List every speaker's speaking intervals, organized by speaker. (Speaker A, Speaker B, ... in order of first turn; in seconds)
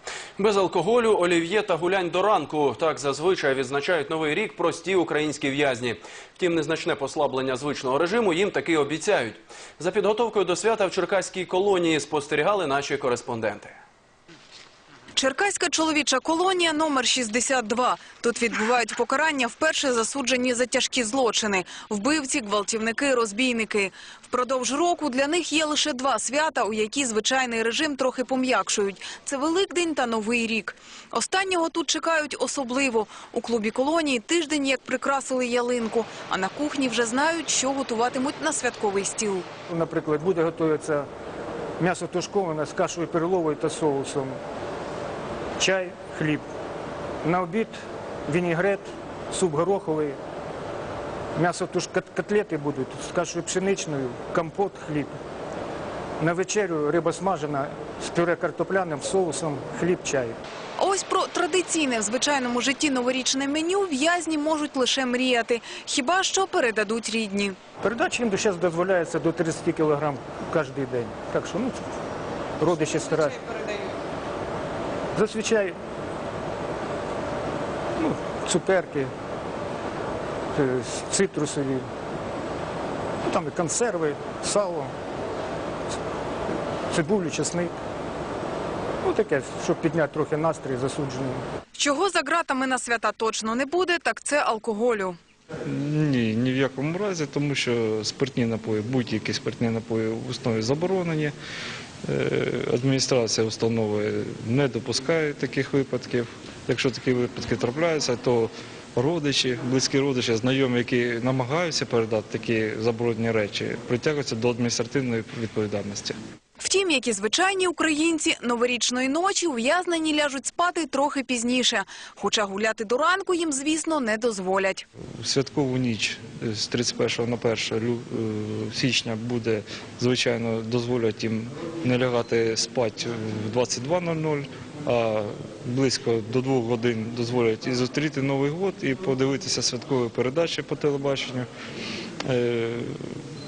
Speaker A: 0.4-13.8
Speaker B: 15.1-39.5, 60.8-67.6, 91.8-95.2, 116.6-124.8
Speaker C: 39.7-41.1, 41.8-44.4, 45.6-46.4, 47.2-47.8, 48.3-50.2, 51.3-55.1, 56.2-60.4, 67.8-71.8, 72.6-73.7, 75.1-75.8, 78.0-79.1, 80.5-81.9, 83.2-84.9, 86.9-87.7, 89.0-91.4
Speaker D: 95.6-101.3, 102.0-116.2, 125.2-141.5, 142.2-143.0